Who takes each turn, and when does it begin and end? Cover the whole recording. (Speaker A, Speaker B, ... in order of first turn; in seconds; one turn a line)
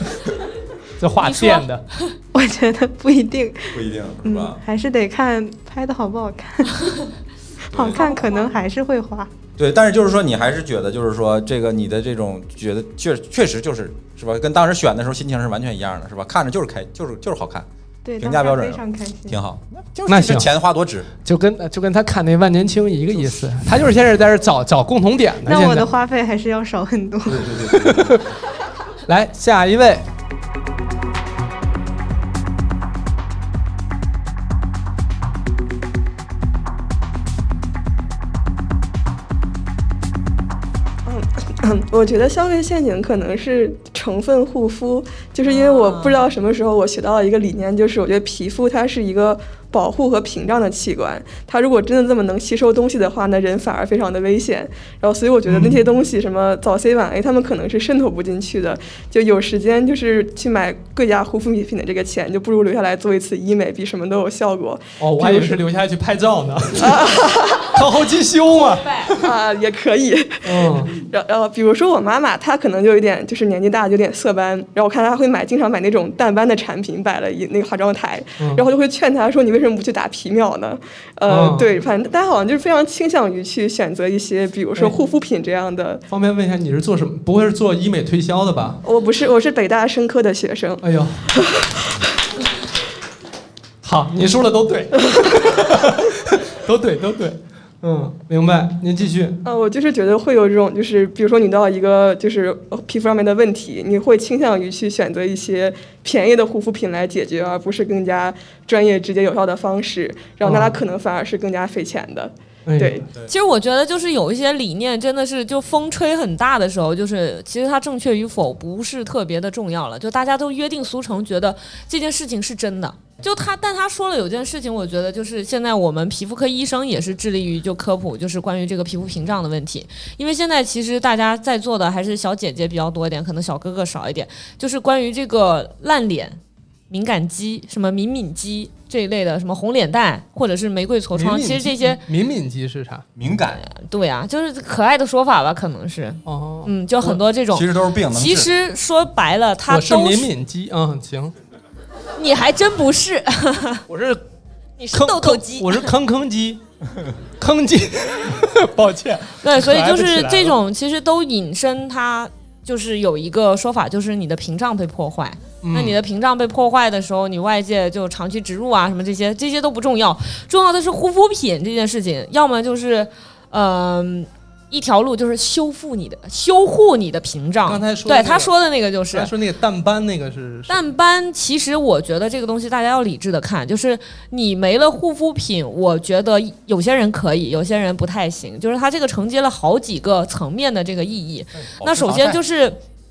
Speaker A: 1.0-1.8
Speaker B: 1.2-2.1
Speaker C: 2.3-6.7
Speaker D: 3.7-4.6
Speaker D: 7.7-8.1
Speaker C: 7.7-9.3
Speaker B: 8.0-8.5
Speaker D: 9.6-17.7
Speaker C: 18.0-19.4
Speaker D: 18.2-21.1
Speaker A: 20.1-20.5
Speaker A: 21.2-25.9
Speaker C: 25.4-27.5
Speaker D: 27.2-28.0
Speaker A: 27.8-28.2
Speaker A: 29.1-30.1
Speaker E: 41.0-65.6
Speaker B: 45.4-46.2
Speaker A: 55.5-55.8
Speaker A: 65.0-67.1
Speaker E: 66.8-67.7
Speaker A: 67.7-69.1
Speaker B: 68.5-69.1
Speaker E: 69.2-86.0
Speaker A: 70.4-71.0
Speaker A: 81.3-81.8
Speaker A: 86.1-88.8
Speaker E: 88.8-90.8
Speaker A: 90.8-91.2
Speaker E: 91.4-91.7
Speaker A: 93.8-99.4
Speaker E: 99.4-113.1
Speaker A: 110.4-110.8
Speaker A: 112.7-113.0
Speaker B: 113.3-136.4
Speaker B: 136.9-142.0
Speaker A: 141.1-143.0
Speaker D: 143.2-143.6
Speaker B: 143.6-150.3
Speaker A: 146.2-147.2
Speaker D: 147.5-148.5
Speaker A: 149.7-151.3
Speaker B: 152.2-153.8
Speaker A: 153.9-154.2
Speaker B: 154.8-155.9
Speaker A: 154.9-156.6
Speaker A: 157.4-160.6
Speaker B: 159.4-179.3
Speaker A: 165.6-166.0
Speaker A: 177.7-178.5
Speaker A: 179.1-180.8
Speaker B: 180.7-192.8
Speaker D: 191.8-192.4